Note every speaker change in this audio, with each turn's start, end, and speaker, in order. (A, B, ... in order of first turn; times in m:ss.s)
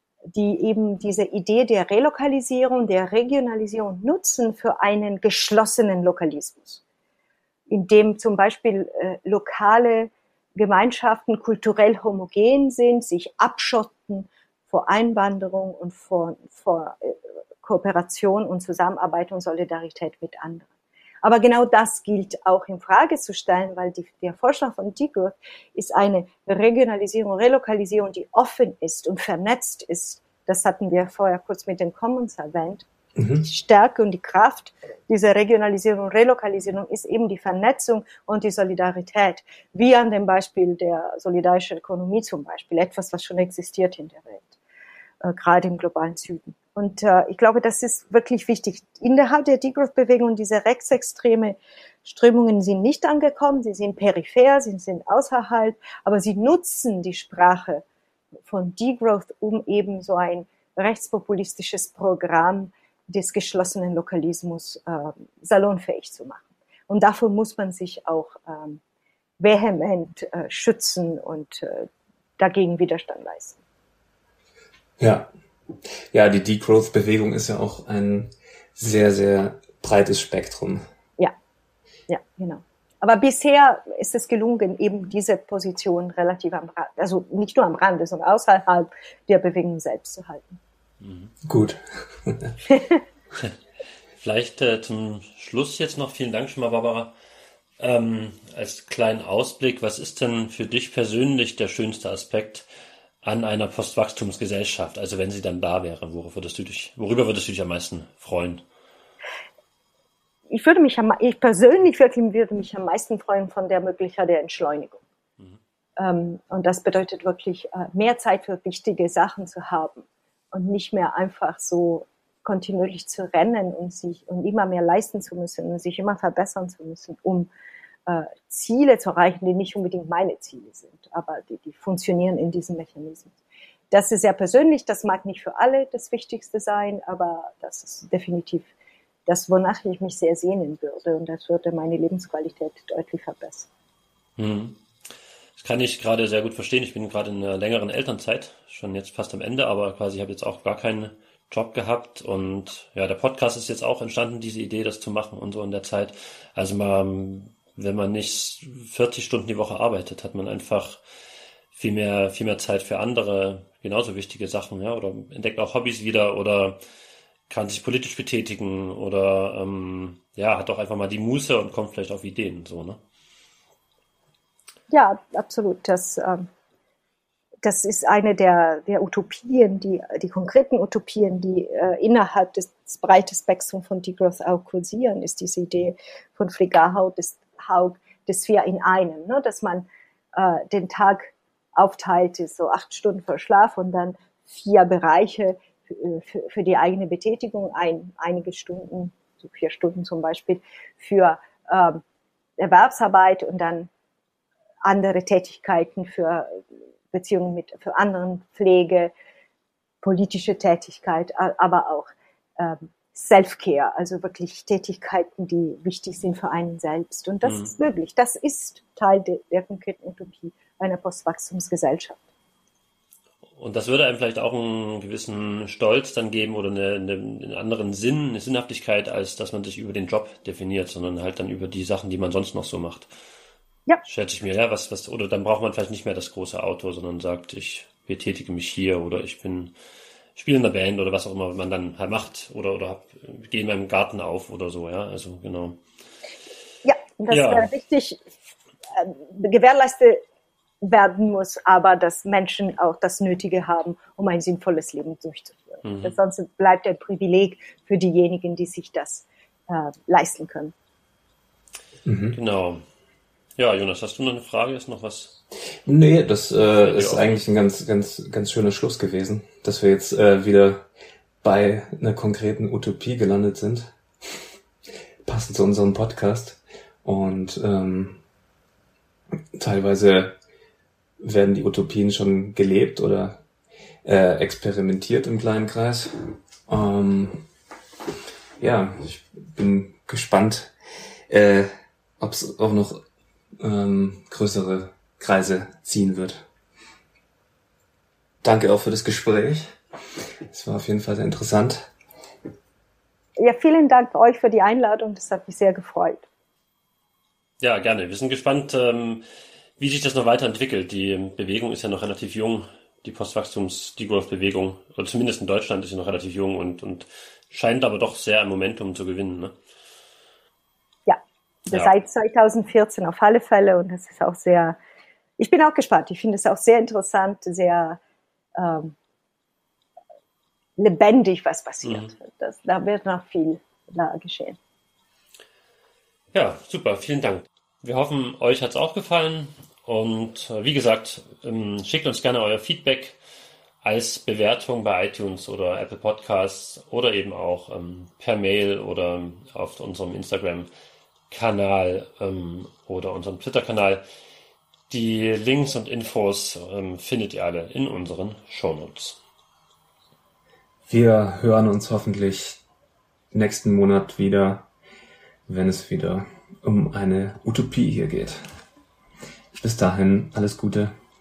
0:00.3-0:06.8 A
0:07.7-0:20.7 A
0:21.2-0:44.6 A
0:33.2-0:33.4 B
0:45.2-0:57.8 A
0:58.5-1:08.8 A
1:09.4-1:13.6 A
1:15.0-1:20.8 B
1:22.1-1:30.6 A
1:31.0-1:31.3 C
1:31.4-1:32.6 B
1:34.2-1:37.1 C
1:37.8-1:42.6 C
1:43.2-1:48.6 C
1:50.5-1:55.0 A
1:56.0-2:07.5 A
2:08.1-2:13.4 A
2:13.9-2:18.7 A
2:19.3-2:23.7 A
2:24.4-2:24.8 C
2:25.6-2:41.0 C
2:41.7-2:46.8 C
2:47.5-2:53.0 C
2:54.9-2:56.5 A
2:57.6-3:22.0 A
3:22.6-3:23.9 A
3:24.8-3:29.1 A
3:30.0-3:42.2 A
3:37.4-3:37.7 C
3:43.6-3:53.1 C
3:54.0-3:59.7 C
4:00.4-4:05.8 C
4:06.8-4:08.2 A
4:07.3-4:07.7 C
4:08.9-4:10.2 A
4:10.8-4:20.7 A
4:15.8-4:16.2 C
4:22.0-4:22.4 B
4:22.3-4:22.8 C
4:23.6-4:25.3 C
4:25.8-4:30.9 B
4:26.8-4:27.4 C
4:31.4-4:34.0 B
4:35.2-4:38.2 B
4:39.6-4:40.3 B
4:41.2-4:43.4 B
4:44.0-4:47.5 B
4:48.6-4:50.7 B
4:51.3-4:53.0 B
4:53.6-4:56.4 B
4:58.4-4:59.8 B
5:00.5-5:01.9 B
5:03.4-5:06.2 A
5:07.6-5:09.2 C
5:09.8-5:19.5 C
5:21.1-5:24.8 A
5:25.4-5:28.0 A
5:28.6-5:28.9 A
5:30.8-5:34.6 A
5:31.8-5:32.1 C
5:36.3-5:43.2 C
5:43.8-5:50.7 C
5:51.3-5:54.0 C
5:54.9-5:59.2 C
6:00.9-6:02.6 B
6:03.3-6:04.7 B
6:05.5-6:08.4 B
6:09.6-6:10.9 B